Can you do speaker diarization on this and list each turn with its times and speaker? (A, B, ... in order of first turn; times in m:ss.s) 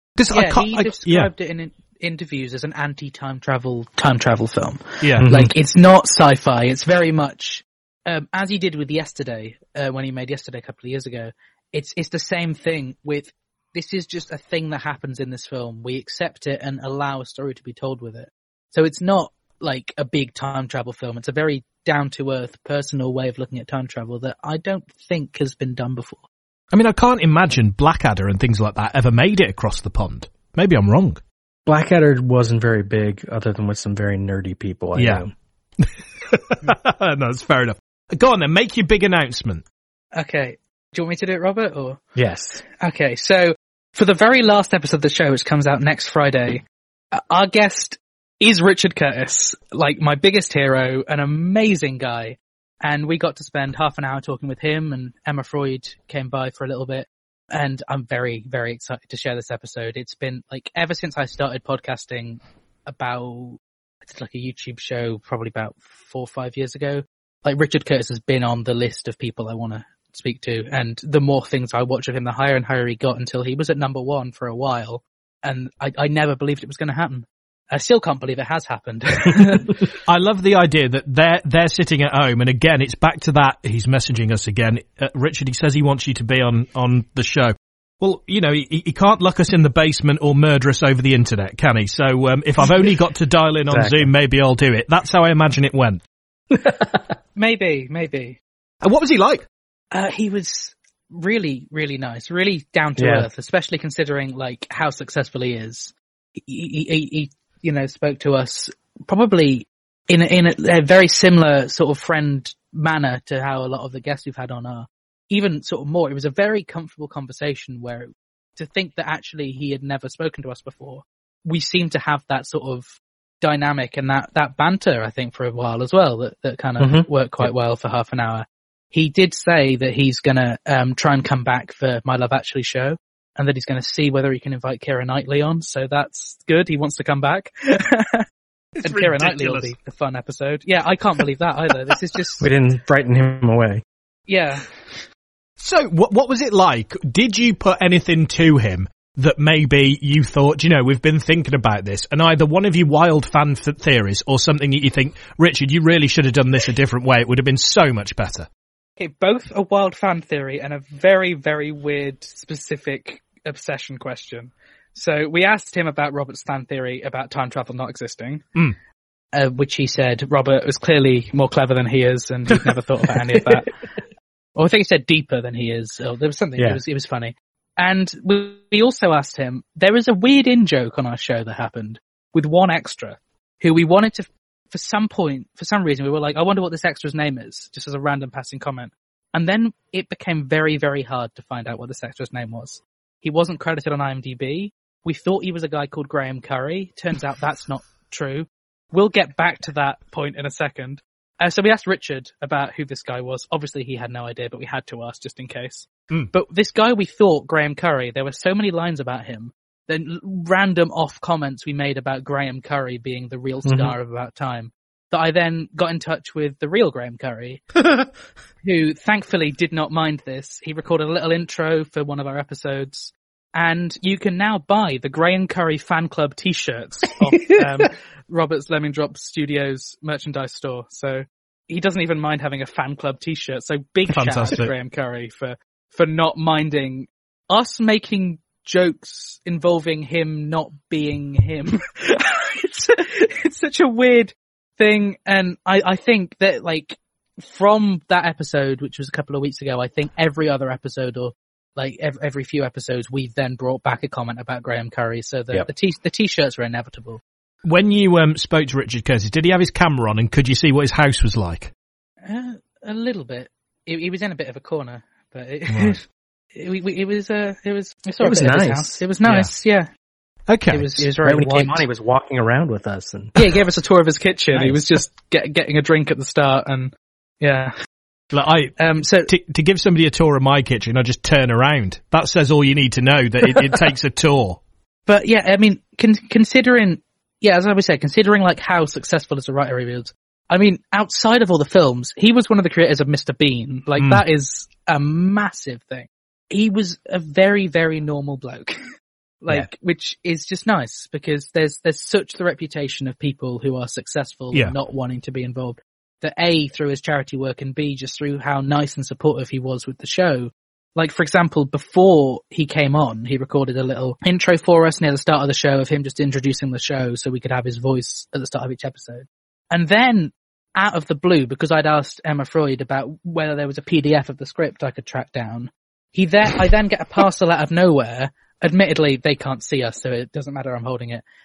0:00.2-0:01.3 A
0:00.3-0:26.3 B
0:05.2-0:05.5 C
0:26.7-0:31.2 A
0:31.6-0:35.3 C
0:35.0-0:35.2 A
0:35.8-0:39.6 A
0:40.1-0:42.0 B
0:42.1-0:42.6 C
0:42.8-1:19.9 B
1:20.0-1:36.0 A
1:33.7-1:34.1 C
1:36.5-1:37.0 C
1:37.4-1:38.4 B
1:38.8-1:39.5 A
1:39.9-2:18.2 B
1:43.0-1:43.3 C
2:06.8-2:07.5 C
2:18.8-2:19.7 A
2:18.8-2:22.5 B
2:22.4-2:23.8 C
2:24.3-2:24.7 B
2:25.6-2:38.5 A
2:39.0-2:48.5 B
2:49.3-2:53.7 B
2:54.6-3:37.6 B
3:33.6-3:33.9 C
3:38.6-4:17.2 B
3:47.4-3:47.8 C
3:54.1-3:54.7 A
4:17.6-4:21.7 A
4:22.2-4:26.0 B
4:25.7-4:26.0 A
4:26.5-4:29.9 B
4:28.2-4:29.0 C
4:29.2-4:29.5 A
4:30.5-4:31.0 A
4:30.7-4:31.8 B
4:31.2-4:33.4 C
4:33.4-4:37.7 B
4:38.3-4:38.8 A
4:38.8-4:39.3 B
4:39.3-4:44.6 A
4:45.1-4:58.8 B
4:54.0-4:54.2 A
4:59.4-5:31.2 B